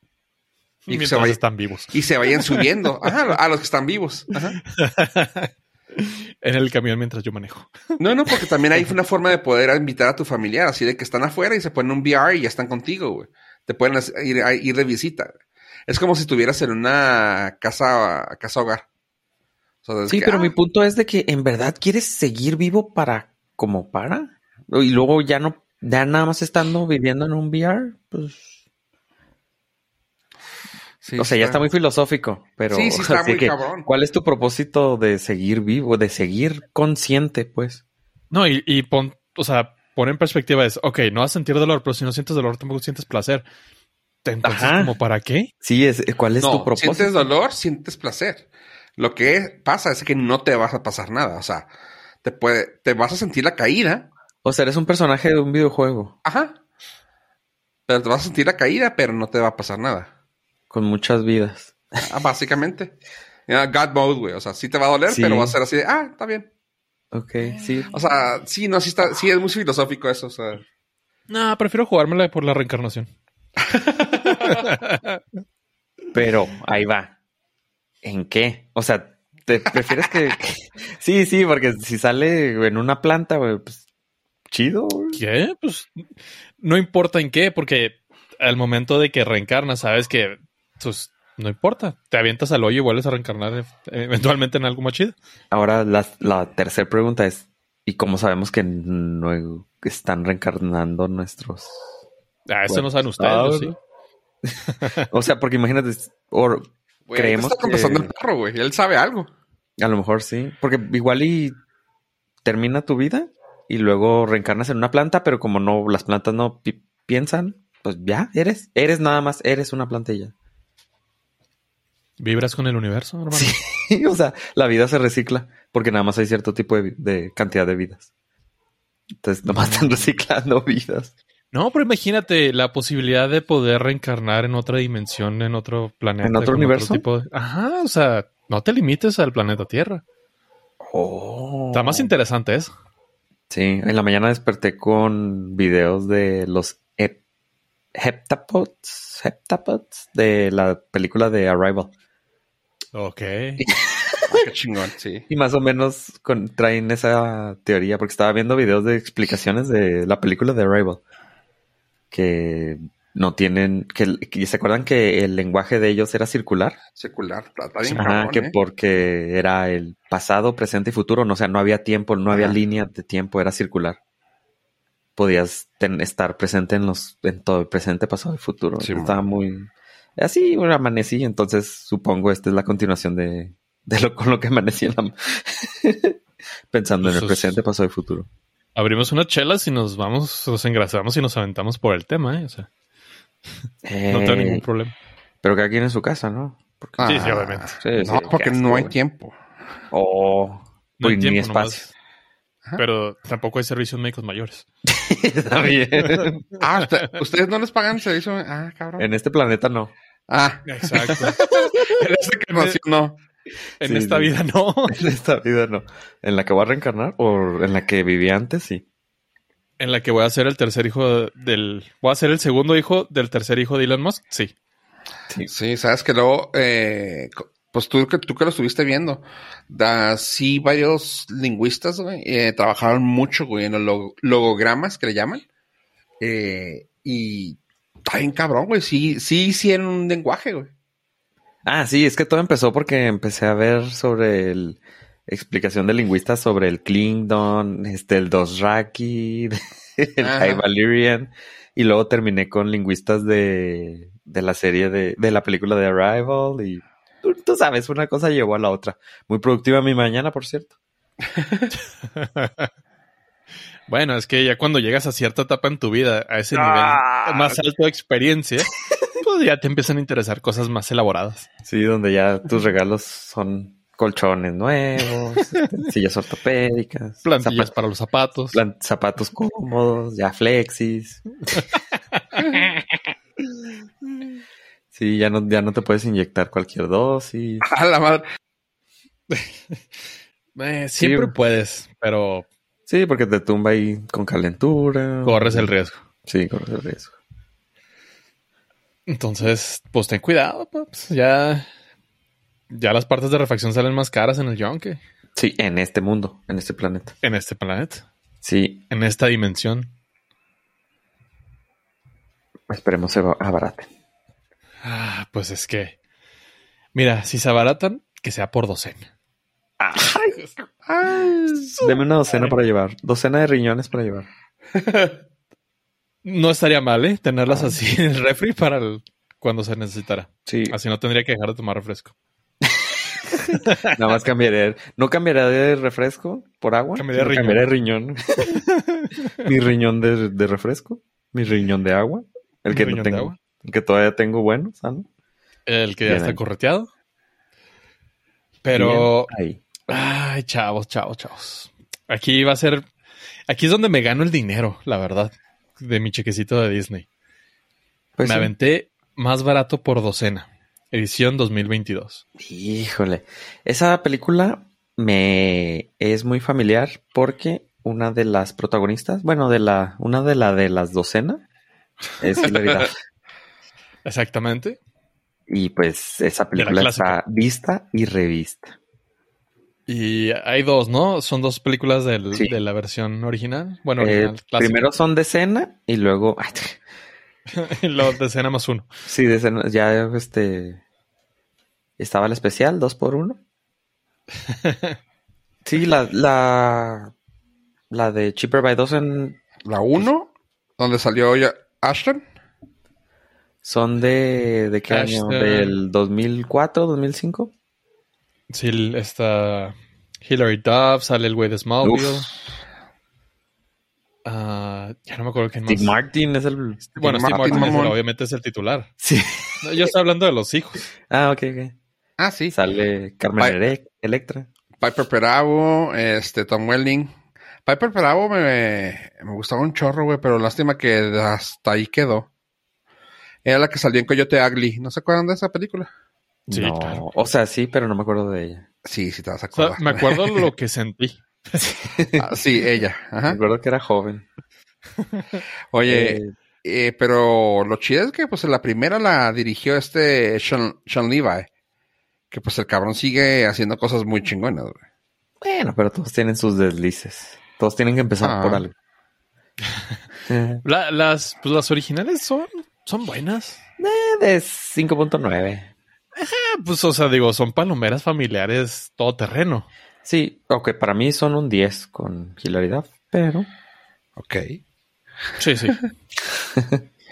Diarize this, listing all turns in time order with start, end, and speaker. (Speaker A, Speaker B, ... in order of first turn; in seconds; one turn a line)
Speaker A: 0.9-2.7
Speaker B: 0.9-1.4
Speaker B: 1.9-4.6
Speaker A: 4.6-7.8
Speaker B: 8.0-15.3
Speaker B: 15.9-18.8
Speaker B: 19.8-20.5
Speaker C: 20.1-28.5
Speaker B: 31.0-31.6
Speaker C: 31.2-37.8
Speaker B: 32.7-33.9
Speaker A: 38.3-43.5
Speaker A: 44.2-45.5
Speaker C: 44.4-44.9
Speaker C: 45.6-47.3
Speaker B: 46.4-48.5
Speaker B: 49.0-51.7
Speaker B: 52.2-54.1
Speaker C: 54.4-56.1
Speaker B: 56.2-56.5
Speaker B: 57.9-60.1
Speaker C: 60.7-61.8
Speaker B: 62.0-62.9
Speaker B: 63.5-66.5
Speaker C: 65.1-65.6
Speaker C: 67.1-67.9
Speaker B: 67.9-70.6
Speaker A: 71.3-73.1
Speaker B: 73.6-74.7
Speaker A: 74.3-75.2
Speaker C: 76.1-77.1
Speaker C: 78.0-83.8
Speaker C: 84.5-85.2
Speaker A: 85.1-86.1
Speaker A: 86.6-95.1
Speaker C: 95.5-101.9
Speaker A: 102.5-103.8
Speaker C: 102.7-103.8
Speaker C: 104.4-108.1
Speaker A: 104.8-105.0
Speaker B: 107.1-109.3
Speaker C: 109.8-111.6
Speaker C: 112.4-120.3
Speaker A: 122.2-123.6
Speaker C: 123.3-128.1
Speaker C: 129.2-131.1
Speaker A: 131.5-140.0
Speaker C: 136.2-137.0
Speaker C: 140.8-142.1
Speaker A: 141.7-142.7
Speaker C: 143.5-147.2
Speaker C: 147.9-151.9
Speaker A: 152.9-153.6
Speaker C: 153.6-154.3
Speaker B: 154.3-155.2
Speaker C: 155.3-161.0
Speaker C: 162.1-166.8
Speaker B: 166.9-168.5
Speaker A: 167.8-168.1
Speaker C: 168.0-174.0
Speaker C: 175.2-186.2
Speaker B: 178.8-179.2
Speaker C: 186.7-188.3
Speaker A: 187.0-187.5
Speaker A: 188.8-192.7
Speaker C: 193.8-194.6
Speaker A: 194.1-194.9
Speaker C: 195.4-198.9
Speaker B: 197.0-199.4
Speaker A: 197.0-197.7
Speaker C: 199.9-201.8
Speaker A: 201.0-201.9
Speaker A: 202.8-204.7
Speaker C: 204.8-206.4
Speaker A: 206.0-206.4
Speaker B: 206.6-209.1
Speaker C: 209.0-209.9
Speaker B: 210.3-213.2
Speaker A: 210.7-211.4
Speaker C: 211.4-211.9
Speaker A: 213.8-215.0
Speaker C: 213.8-214.3
Speaker C: 214.9-218.8
Speaker A: 219.8-224.5
Speaker B: 225.4-235.4
Speaker B: 236.2-240.7
Speaker C: 241.6-260.7
Speaker B: 250.2-250.6
Speaker B: 261.4-261.7
Speaker A: 262.1-262.7
Speaker A: 263.9-271.5
Speaker C: 266.5-267.6
Speaker C: 271.6-277.7
Speaker A: 277.2-278.6
Speaker C: 278.5-281.2
Speaker A: 281.5-282.6
Speaker C: 284.9-287.6
Speaker B: 287.6-288.2
Speaker A: 289.3-289.8
Speaker A: 290.6-292.4
Speaker C: 290.9-291.3
Speaker C: 292.9-295.7
Speaker A: 295.2-296.0
Speaker C: 296.2-297.1
Speaker A: 299.1-301.7
Speaker A: 302.7-305.0
Speaker C: 305.4-307.1
Speaker A: 307.2-308.0
Speaker C: 308.4-308.8
Speaker A: 308.9-309.9
Speaker C: 312.7-313.9
Speaker A: 314.8-315.9
Speaker A: 316.9-319.1
Speaker C: 319.8-320.4
Speaker B: 320.9-321.9
Speaker C: 321.8-324.3
Speaker B: 324.8-325.1
Speaker A: 326.2-332.1
Speaker C: 327.5-327.7
Speaker C: 330.4-330.8
Speaker C: 332.6-333.0
Speaker A: 333.4-333.9
Speaker C: 333.5-338.6
Speaker A: 337.0-337.6
Speaker A: 338.5-339.4
Speaker C: 339.4-345.1
Speaker A: 342.7-343.4
Speaker A: 345.7-346.9
Speaker C: 346.0-346.4
Speaker A: 348.6-349.3
Speaker C: 348.8-349.6
Speaker A: 349.9-352.9
Speaker A: 353.5-357.1
Speaker C: 358.1-358.5
Speaker A: 358.2-362.2
Speaker C: 362.4-371.4
Speaker C: 372.2-372.9
Speaker A: 374.1-374.8
Speaker C: 375.5-378.8
Speaker A: 376.5-377.2
Speaker A: 379.9-384.9
Speaker C: 384.0-386.8
Speaker A: 387.5-388.8
Speaker C: 389.1-390.8
Speaker C: 392.0-393.4
Speaker A: 394.5-395.0
Speaker C: 395.6-397.1
Speaker C: 397.9-399.4
Speaker B: 399.6-402.2
Speaker C: 403.6-407.5
Speaker A: 404.9-405.8
Speaker A: 408.5-412.3
Speaker C: 411.8-412.2
Speaker A: 414.2-415.9
Speaker C: 415.7-417.8
Speaker A: 416.9-418.9
Speaker B: 417.0-418.0
Speaker C: 419.0-419.9
Speaker A: 419.6-420.9
Speaker C: 421.1-421.7
Speaker B: 422.2-422.6
Speaker C: 422.5-424.5
Speaker B: 424.8-427.1
Speaker B: 427.6-432.3
Speaker B: 433.4-435.9
Speaker C: 436.5-438.6
Speaker A: 436.5-437.0
Speaker B: 438.8-440.4
Speaker A: 439.5-441.6
Speaker C: 441.6-442.3
Speaker B: 442.2-443.4
Speaker C: 443.3-444.2
Speaker A: 445.0-445.4
Speaker B: 445.7-451.5
Speaker C: 445.9-446.3
Speaker B: 452.3-454.8
Speaker C: 455.4-458.7
Speaker B: 458.2-458.6
Speaker C: 460.3-460.6
Speaker A: 460.6-463.6
Speaker C: 463.8-465.7
Speaker A: 466.1-469.7
Speaker C: 470.0-473.5
Speaker B: 474.2-474.6
Speaker A: 475.4-475.8
Speaker C: 476.5-476.8